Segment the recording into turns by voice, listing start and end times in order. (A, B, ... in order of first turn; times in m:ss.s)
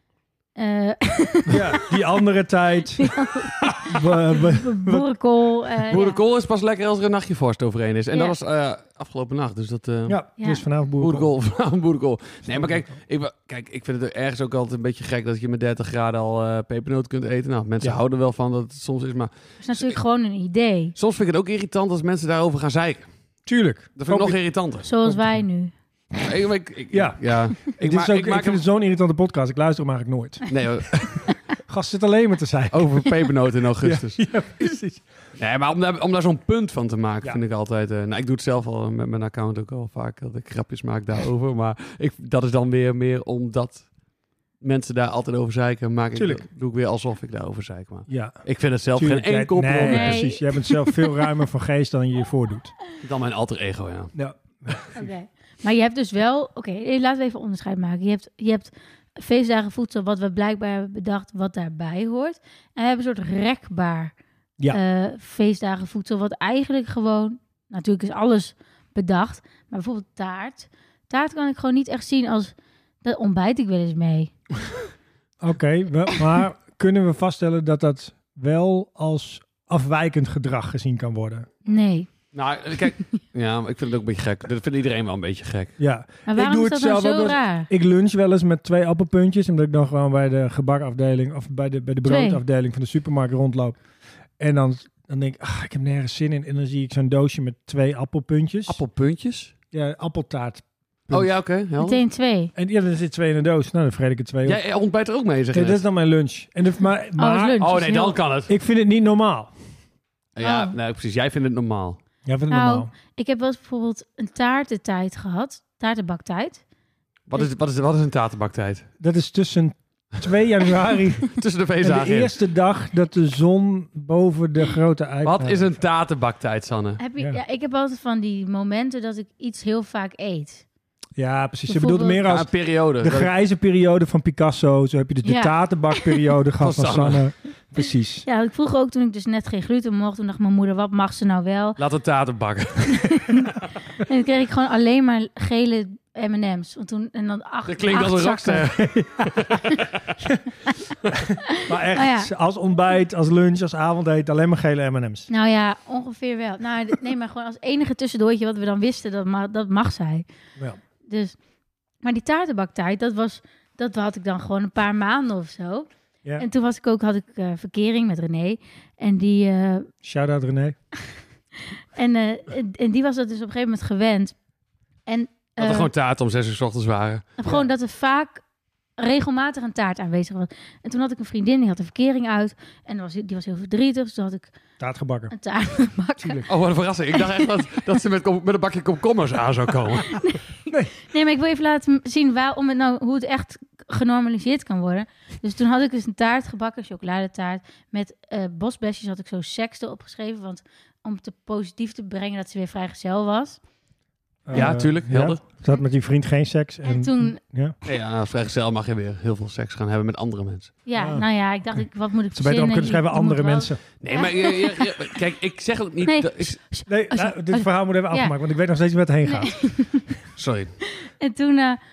0:00.6-0:01.8 A
0:01.5-0:03.1 B
0:03.0-0:06.2 A
0:03.7-0:05.1 B
0:05.9-0:10.2 C
0:10.1-0:11.3 B
0:10.4-0:10.6 A
0:11.0-0:20.0 C
0:12.5-0:12.9 B
0:19.6-0:20.9 A
0:21.0-0:23.1 C
0:23.4-0:24.4 B
0:24.0-0:24.9 C
0:24.8-0:25.7 A
0:25.1-0:25.4 B
0:26.2-0:28.6 C
0:26.9-0:30.6 B
0:30.5-0:31.2 C
0:31.6-0:33.1 B
0:32.7-0:34.3 C
0:33.8-0:35.0 B
0:35.4-0:43.9 C
0:44.6-0:50.3 C
0:46.1-0:46.4 B
0:48.1-0:48.4 B
0:49.0-0:52.8 B
0:49.8-0:51.0 A
0:53.0-0:54.1 C
0:54.1-0:55.1 B
0:54.9-1:04.1 A
1:04.7-1:14.3 A
1:15.4-1:21.5 B
1:21.6-1:22.1 A
1:22.3-1:25.7 C
1:25.8-1:33.8 B
1:26.3-1:27.7 A
1:32.0-1:32.4 A
1:34.4-1:38.8 B
1:38.7-1:39.5 C
1:39.7-1:41.3 B
1:41.1-1:42.0 C
1:41.8-1:42.5 A
1:42.5-1:44.6 B
1:44.4-1:45.8 C
1:45.5-1:47.7 B
1:47.2-1:48.2 A
1:47.6-1:48.5 C
1:48.4-1:49.5 B
1:50.4-1:52.0 C
1:50.4-1:50.7 A
1:52.2-1:52.9 B
1:52.5-1:56.6 A
1:57.3-1:58.9 C
1:59.0-2:05.7 B
2:01.3-2:02.3 C
2:05.2-2:07.0 C
2:07.0-2:10.6 A
2:11.2-2:12.5 B
2:11.7-2:12.2 A
2:12.2-2:13.3 C
2:13.0-2:18.2 B
2:15.2-2:16.1 A
2:16.6-2:17.2 C
2:18.2-2:21.8 A
2:21.8-2:23.1 C
2:22.9-2:28.7 A
2:27.7-2:30.0 C
2:28.7-2:29.4 B
2:31.6-2:35.3 B
2:31.9-2:32.3 A
2:35.3-2:40.2 A
2:41.1-2:41.4 A
2:42.0-2:49.9 A
2:50.0-2:50.8 B
2:51.9-2:54.3 A
2:55.1-2:55.9 A
2:55.6-2:57.3 C
2:57.4-2:58.4 A
2:59.0-3:04.5 A
3:04.8-3:05.3 B
3:05.3-3:06.5 A
3:06.2-3:06.4 B
3:06.5-3:10.2 C
3:10.1-3:10.4 A
3:10.9-3:23.6 A
3:24.4-3:27.7 B
3:24.5-3:25.4 C
3:26.8-3:27.4 A
3:27.8-3:30.8 C
3:30.8-3:35.2 A
3:30.9-3:31.3 B
3:32.3-3:33.8 B
3:34.0-3:36.6 C
3:36.0-3:38.3 A
3:36.9-3:39.6 B
3:39.2-3:40.0 A
3:40.4-3:40.7 C
3:41.0-3:41.8 A